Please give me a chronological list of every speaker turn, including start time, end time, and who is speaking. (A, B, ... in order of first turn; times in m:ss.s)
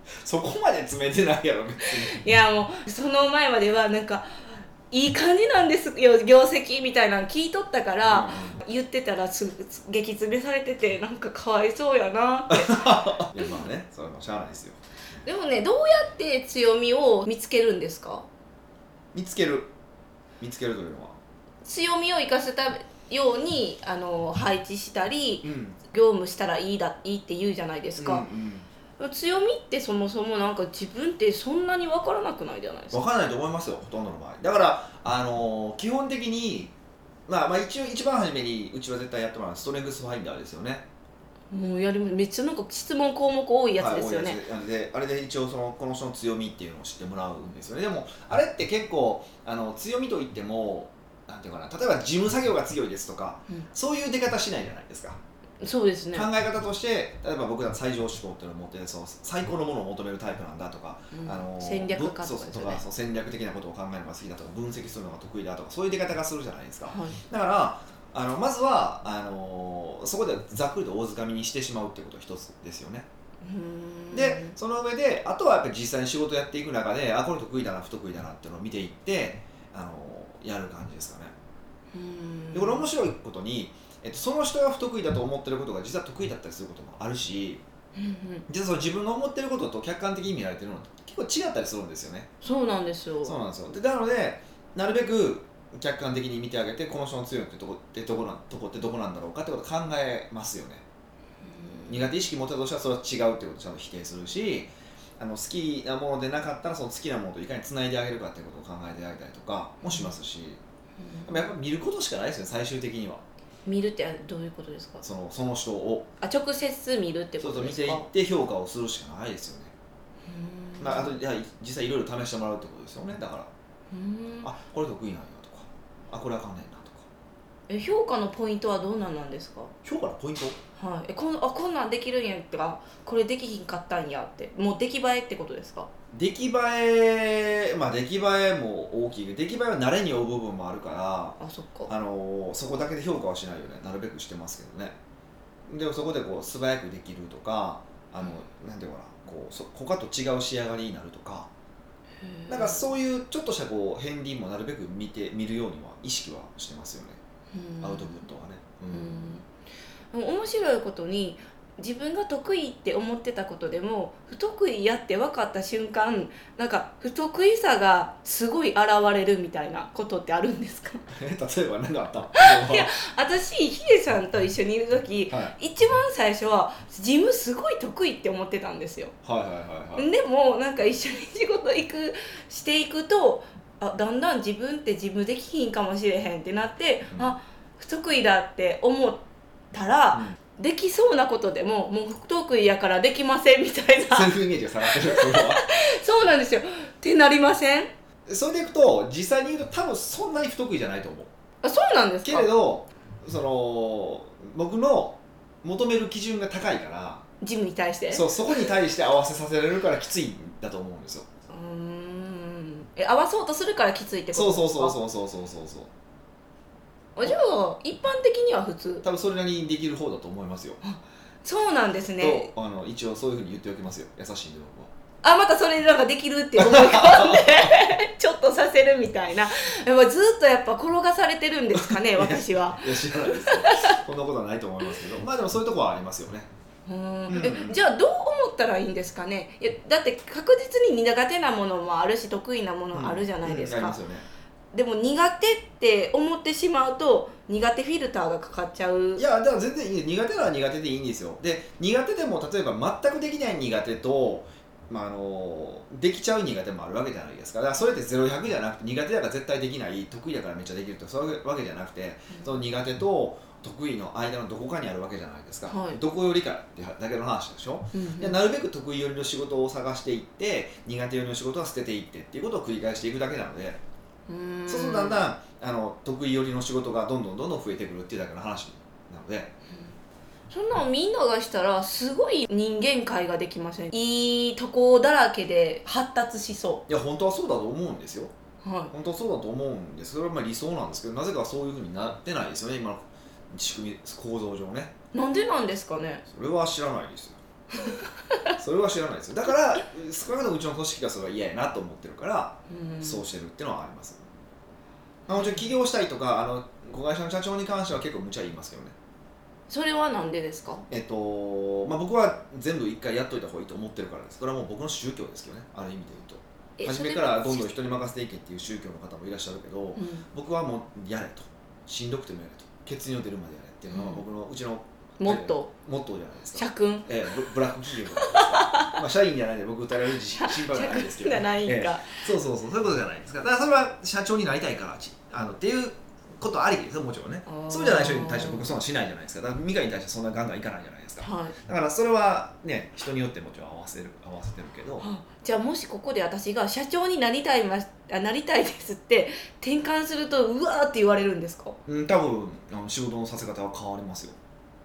0:00.2-0:02.2 A
0:01.8-0:13.6 B
0:08.1-0:08.6 A
0:12.5-0:15.2 A
0:15.2-0:18.3 B
0:19.1-0:19.7 A
0:20.4-0:21.2 A
0:21.6-0:28.3 B
0:25.4-0:25.8 A
0:28.0-0:28.7 A
0:29.0-0:33.0 B
0:32.9-0:36.7 A
0:37.3-0:40.9 A
0:41.5-0:44.4 B
0:43.8-0:55.2 A
0:55.6-0:56.3 B
0:56.1-1:13.1 A
1:01.1-1:02.8 B
1:06.9-1:07.2 B
1:13.4-1:14.6 B
1:14.1-1:21.3 A
1:21.9-1:22.9 B
1:22.5-1:27.6 A
1:28.0-1:28.4 B
1:28.5-1:32.3 A
1:32.4-1:33.4 B
1:33.2-1:40.8 A
1:41.4-1:42.1 B
1:41.9-1:50.6 A
1:49.8-1:50.1 B
1:51.0-1:51.5 B
1:51.3-1:53.2 A
1:53.7-1:55.0 B
1:55.0-1:56.1 A
1:56.2-1:58.1 B
1:57.4-1:59.7 A
2:00.3-2:01.2 B
2:00.8-2:03.5 A
2:03.9-2:04.5 B
2:04.4-2:07.1 A
2:07.7-2:09.7 B
2:09.8-2:10.6 A
2:10.8-2:15.9 B
2:16.1-2:25.0 A
2:21.4-2:21.9 B
2:25.7-2:31.5 A
2:32.2-2:32.9 B
2:32.5-2:37.2 A
2:37.5-2:38.2 B
2:37.8-2:39.4 A
2:38.9-2:39.5 B
2:40.1-2:51.1 B
2:51.1-2:52.9 A
2:52.4-2:59.1 B
2:55.3-2:55.6 A
2:59.2-3:00.1 A
3:00.0-3:17.9 B
3:14.1-3:15.6 A
3:18.3-3:21.3 A
3:21.6-3:22.5 B
3:22.2-3:27.2 A
3:27.4-3:28.7 B
3:28.1-3:31.3 A
3:31.5-3:35.0 B
3:34.3-3:35.9 A
3:37.2-3:39.1 B
3:39.0-3:40.8 A
3:40.8-3:42.5 B
3:42.2-3:44.9 A
3:45.2-3:54.0 B
3:46.6-3:47.8 A
3:51.8-3:56.5 A
3:56.9-4:04.0 B
3:57.3-3:57.8 A
4:02.9-4:04.3 A
4:04.7-4:09.2 B
4:09.2-4:33.8 A
4:22.3-4:22.6 B
4:25.7-4:26.0 B
4:27.9-4:28.4 B
4:34.3-4:35.2 B
4:34.7-4:39.5 A
4:40.5-4:46.8 B
4:46.9-4:48.3 A
4:48.6-4:48.9 B
4:48.9-4:54.9 A
4:55.1-4:56.2 B
4:56.3-4:57.4 A
4:57.8-4:58.5 B
4:58.6-5:04.2 A
5:02.7-5:03.2 B
5:05.3-5:05.6 B
5:05.3-5:09.0 A
5:09.7-5:10.8 B
5:10.9-5:45.1 A
5:16.8-5:17.7 B
5:20.0-5:20.3 B
5:23.9-5:24.2 B
5:25.2-5:25.7 B
5:26.6-5:27.5 B
5:28.1-5:29.0 B
5:30.4-5:32.2 B
5:37.5-5:38.7 B
5:41.2-5:41.6 B
5:45.0-5:51.8 B
5:51.9-5:54.4 A